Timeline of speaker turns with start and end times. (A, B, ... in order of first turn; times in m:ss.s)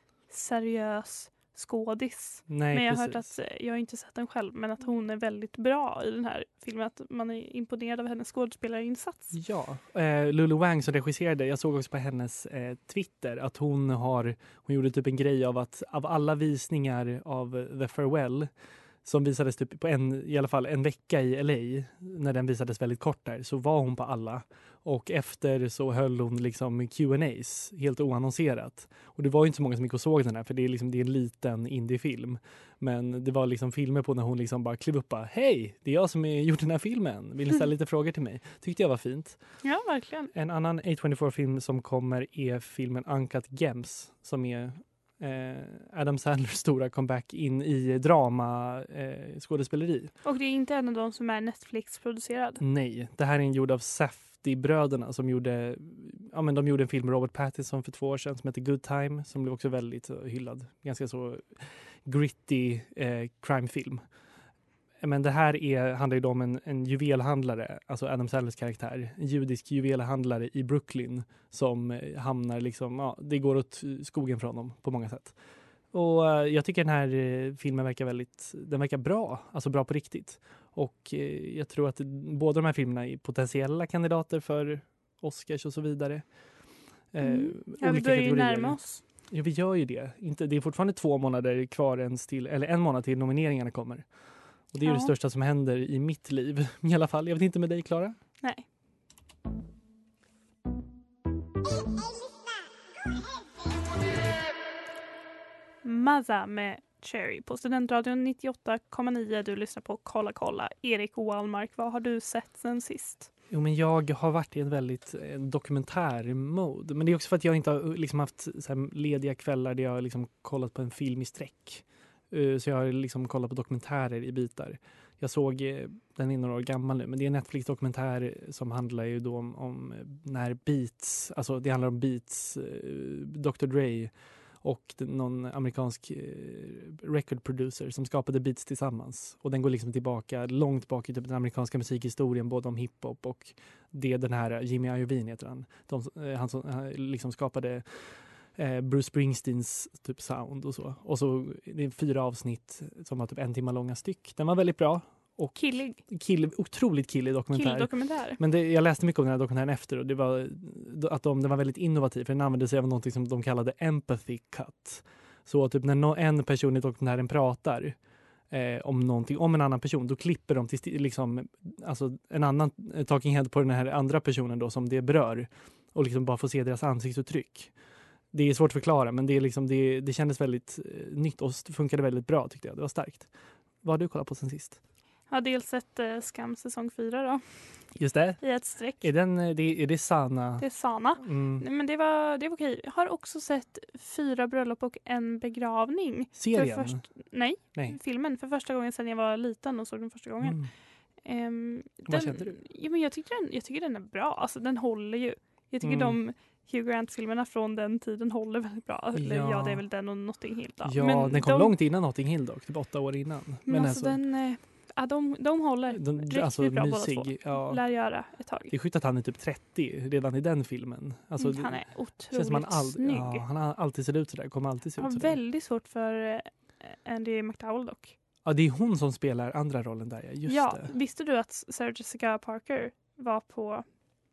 0:00.3-0:09.4 A
0:02.5-0:03.3 B
0:09.3-0:18.5 B
0:19.0-0:39.4 B
0:39.6-0:40.3 A
0:40.3-0:50.1 B
0:50.2-0:52.6 A
0:52.6-1:04.0 B
1:05.0-1:15.4 B
1:15.9-1:26.2 B
1:27.1-1:28.8 B
1:27.2-1:29.0 A
1:29.3-1:34.0 B
1:34.7-1:38.2 B
1:34.8-1:35.1 A
1:45.8-1:53.3 A
1:53.5-2:48.0 B
2:35.6-2:36.0 A
2:37.5-2:38.4 A
2:48.5-2:57.7 B
2:58.3-3:03.3 B
3:03.8-3:04.8 B
3:05.3-3:07.4 A
3:08.0-3:08.4 B
3:08.4-3:09.1 A
3:08.9-3:10.7 B
3:10.6-3:20.6 A
3:11.2-3:11.6 B
3:16.4-3:17.0 B
3:20.4-3:20.7 B
3:21.2-3:31.7 A
3:22.1-3:22.6 B
3:25.8-3:26.2 B
3:29.1-3:29.8 B
3:30.8-3:34.2 B
3:33.7-3:38.7 A
3:36.0-3:37.8 B
3:38.7-3:41.8 B
3:41.4-3:43.5 A
3:42.3-3:45.4 B
3:45.0-3:48.1 A
3:48.4-3:50.9 B
3:50.5-3:53.8 A